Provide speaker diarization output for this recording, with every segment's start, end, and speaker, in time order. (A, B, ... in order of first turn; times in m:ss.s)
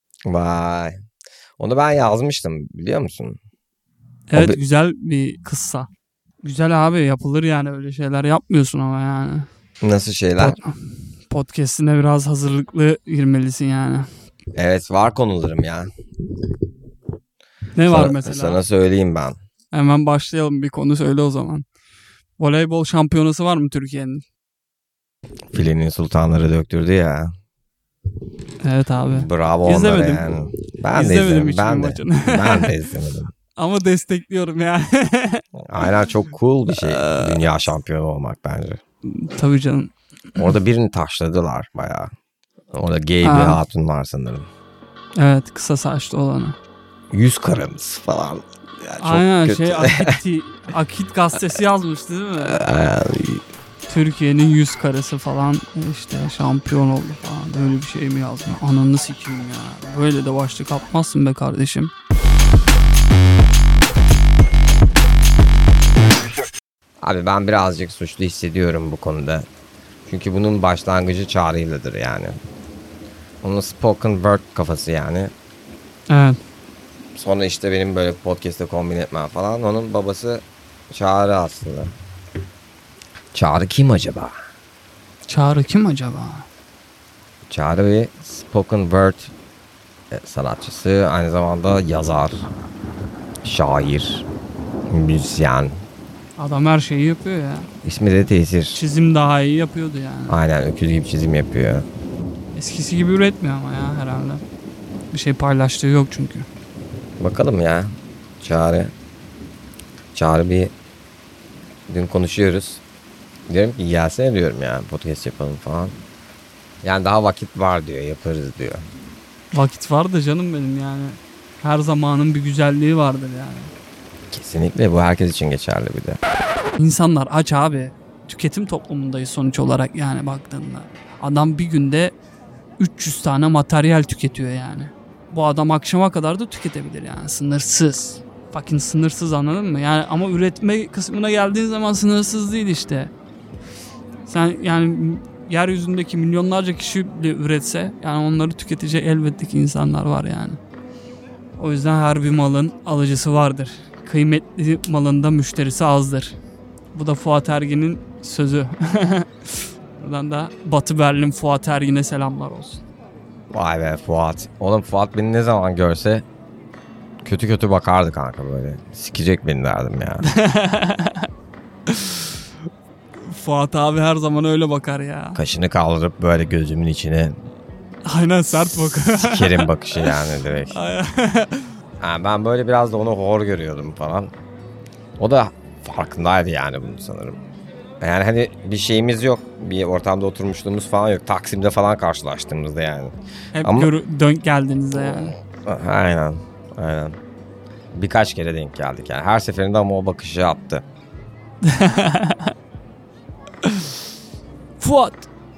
0:00.3-0:01.0 A
0:01.6-0:03.4 A
0:04.3-0:05.9 B
0:06.4-0:09.5 B
0:09.8-0:10.6 A
0:10.4-0:10.8 B
0:11.3-0:14.1 B
0:14.6-0:15.9 A
0:17.8-0:18.6 B
0:17.9-0:19.4 A
0:19.7-0:21.7 B
0:22.4-0:24.2 B
0:25.5-0:27.3 A
0:28.6-0:30.3 B
0:29.1-0:33.3 A
0:30.9-0:32.7 B
0:33.6-0:35.5 B
0:35.6-0:38.8 A
0:36.7-0:37.4 B
0:39.0-0:39.9 B
0:40.4-0:42.1 A
0:42.7-0:44.5 A
0:43.2-0:43.6 B
0:45.2-0:46.6 B
0:47.1-0:50.2 A
0:49.0-0:52.6 B
0:52.4-0:53.4 A
0:53.9-1:01.9 B
1:07.0-1:09.5 A
1:10.1-1:12.4 A
1:13.4-1:15.3 A
1:16.1-1:16.4 B
1:17.2-1:21.9 A
1:23.3-1:24.4 A
1:25.3-1:26.5 B
1:27.5-1:29.3 A
1:30.1-1:32.5 A
1:33.4-1:34.3 A
1:34.9-1:35.9 A
1:36.4-1:37.7 B
1:37.8-1:38.8 A
1:38.7-1:40.4 B
1:40.3-1:41.9 A
1:42.6-1:44.4 B
1:45.1-1:46.5 B
1:47.2-1:48.9 A
1:50.1-1:50.7 A
1:51.9-1:52.8 A
1:53.5-1:56.0 A
1:56.8-1:58.8 A
1:59.5-2:03.7 B
2:04.3-2:06.2 A
2:06.8-2:12.2 B
2:12.8-2:23.1 B
2:24.3-2:30.6 B
2:31.6-2:36.4 B
2:36.9-2:42.8 B
2:43.5-2:46.2 A
2:47.2-2:50.3 A
2:50.2-2:51.3 B
2:51.9-2:52.3 B
2:53.2-2:55.4 B
2:55.4-2:57.4 A
2:58.0-3:01.7 B
2:58.6-3:00.8 A
3:02.0-3:04.3 A
3:05.2-3:07.4 A
3:08.0-3:13.9 A
3:13.5-3:15.4 B
3:14.9-3:17.2 A
3:18.0-3:20.8 A
3:21.6-3:22.5 B
3:23.6-3:23.9 B
3:24.8-3:25.3 B